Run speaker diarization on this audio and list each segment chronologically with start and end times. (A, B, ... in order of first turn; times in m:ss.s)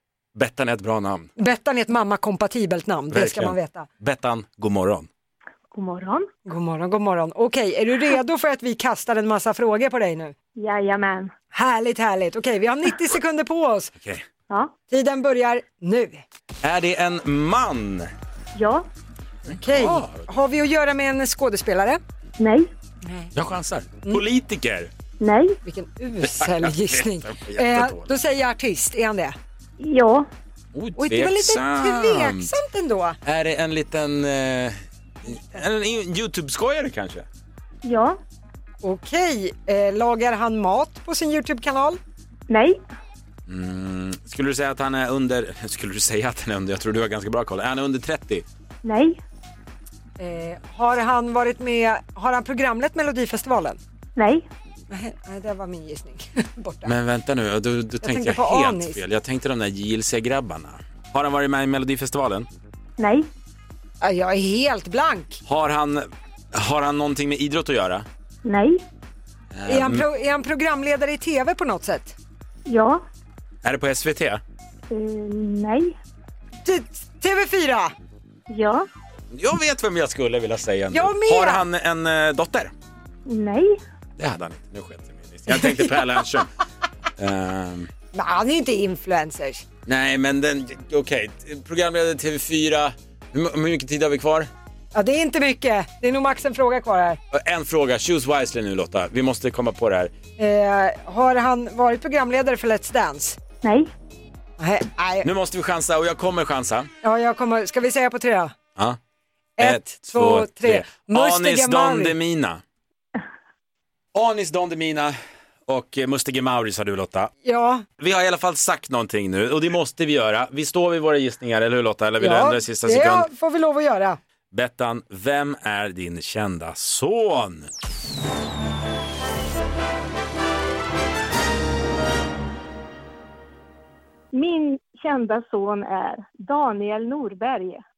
0:00.3-0:01.3 A
0:01.4-0:03.9 B
0:03.1-0:05.1 A
0:05.7-0:06.3 C
0:06.4-0:10.3 B
0:10.6-0:11.3 C
0:11.5-0:13.9 B
0:14.0-0:14.2 A
0:14.9-0:16.2 B
0:16.6-0:18.1 A
0:18.6-0:18.9 C
0:19.5-0:20.3 A
0:19.5-0:22.0 B
0:22.4-0:22.7 C
0:23.3-0:24.9 A
0:25.2-0:25.6 C
0:25.6-0:29.4 B
0:26.2-0:28.1 A
0:29.8-0:30.3 C
0:30.7-0:32.5 A
0:31.0-0:33.2 B
0:33.2-0:37.2 A
0:37.8-0:38.2 C
0:38.8-0:42.0 B
0:42.5-0:42.8 C
0:43.5-0:48.4 A
0:48.8-0:49.2 C
0:50.2-0:53.8 B
0:54.2-0:54.5 C
0:54.9-0:56.9 B
0:56.8-1:02.5 A
0:58.0-0:59.0 B
1:03.0-1:03.3 C
1:04.0-1:05.4 B
1:05.4-1:08.0 A
1:08.4-1:08.8 C
1:09.5-1:10.0 A
1:09.7-1:12.2 B
1:12.6-1:13.0 C
1:13.6-1:14.4 A
1:14.9-1:16.0 C
1:16.6-1:17.9 B
1:18.5-1:18.9 C
1:19.3-1:22.7 A
1:20.9-1:21.6 B
1:23.2-1:23.8 C
1:24.2-1:26.5 A
1:27.2-1:27.9 A
1:28.1-1:29.6 B
1:29.8-1:34.5 A
1:34.9-1:37.2 B
1:37.3-1:40.1 A
1:40.4-1:43.4 B
1:43.6-1:43.9 C
1:44.6-1:45.3 B
1:45.2-1:46.9 A
1:47.0-1:48.5 B
1:49.6-1:52.1 B
1:49.6-1:52.6 A
1:54.1-1:55.1 A
1:55.7-1:57.3 A
1:57.4-1:57.8 B
1:58.0-2:03.3 A
2:02.2-2:04.2 B
2:04.5-2:07.7 A
2:14.3-2:17.8 C